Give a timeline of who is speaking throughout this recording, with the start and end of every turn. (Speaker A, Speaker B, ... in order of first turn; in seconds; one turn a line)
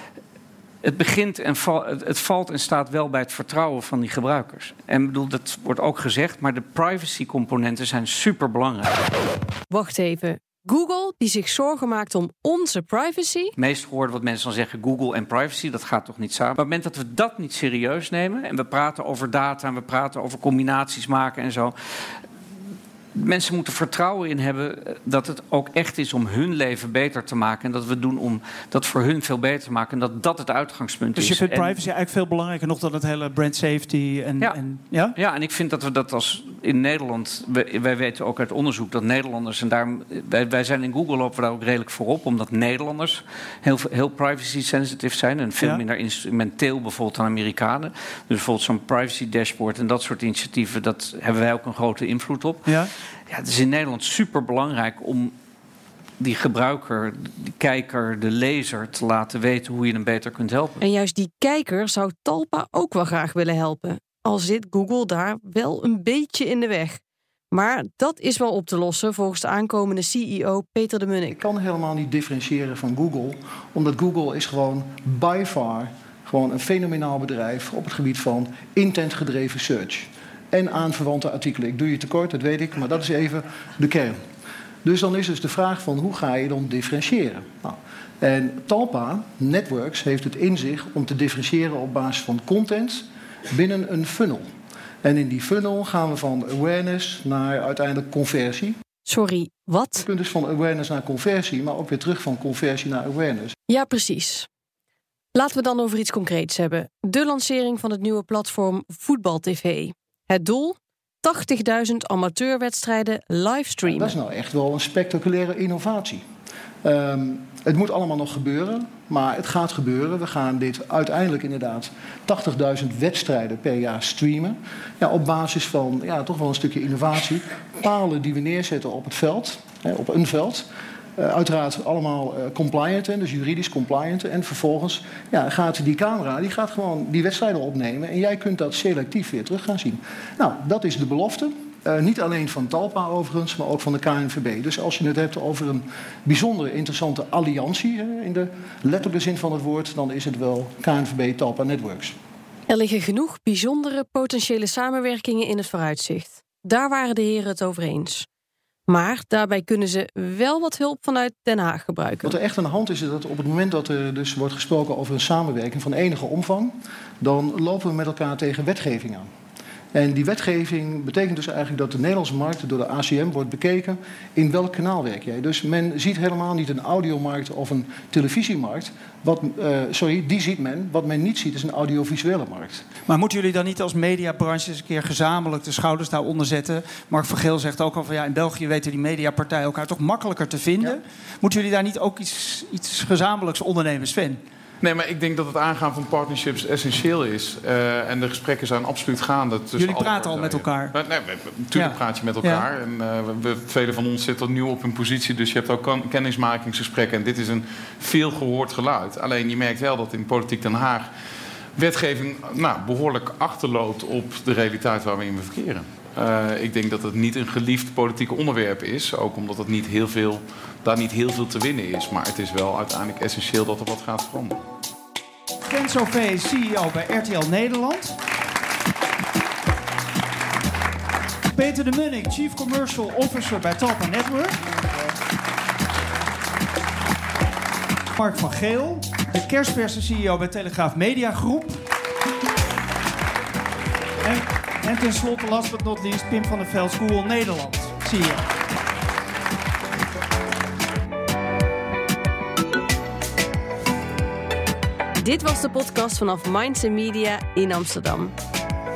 Speaker A: 0.8-9.0
Speaker B: 9.7-13.5
Speaker A: 13.6-21.7
Speaker A: 23.1-31.8
Speaker C: 31.1-35.1
Speaker A: 34.4-55.3
Speaker A: 56.2-60.8
Speaker B: 60.8-67.0
Speaker B: 67.5-71.4
Speaker D: 71.4-84.2
Speaker D: 84.8-94.5
Speaker D: 95.0-98.8
Speaker B: 99.0-100.0
Speaker D: 100.0-103.5
Speaker B: 103.7-104.5
Speaker B: 105.3-114.2
Speaker D: 113.9-116.2
Speaker D: 116.8-152.2
Speaker B: 152.7-158.2
Speaker B: 158.9-162.4
Speaker D: 162.2-169.3
Speaker D: 169.9-182.8
Speaker C: 183.1-194.4
Speaker E: 194.8-211.1
Speaker C: 199.8-200.9
Speaker C: 201.7-202.6
Speaker E: 211.8-224.6
Speaker C: 225.6-228.2
Speaker C: 231.5-234.6
Speaker C: 238.2-241.8
Speaker C: 244.2-248.4
Speaker B: 255.2-258.3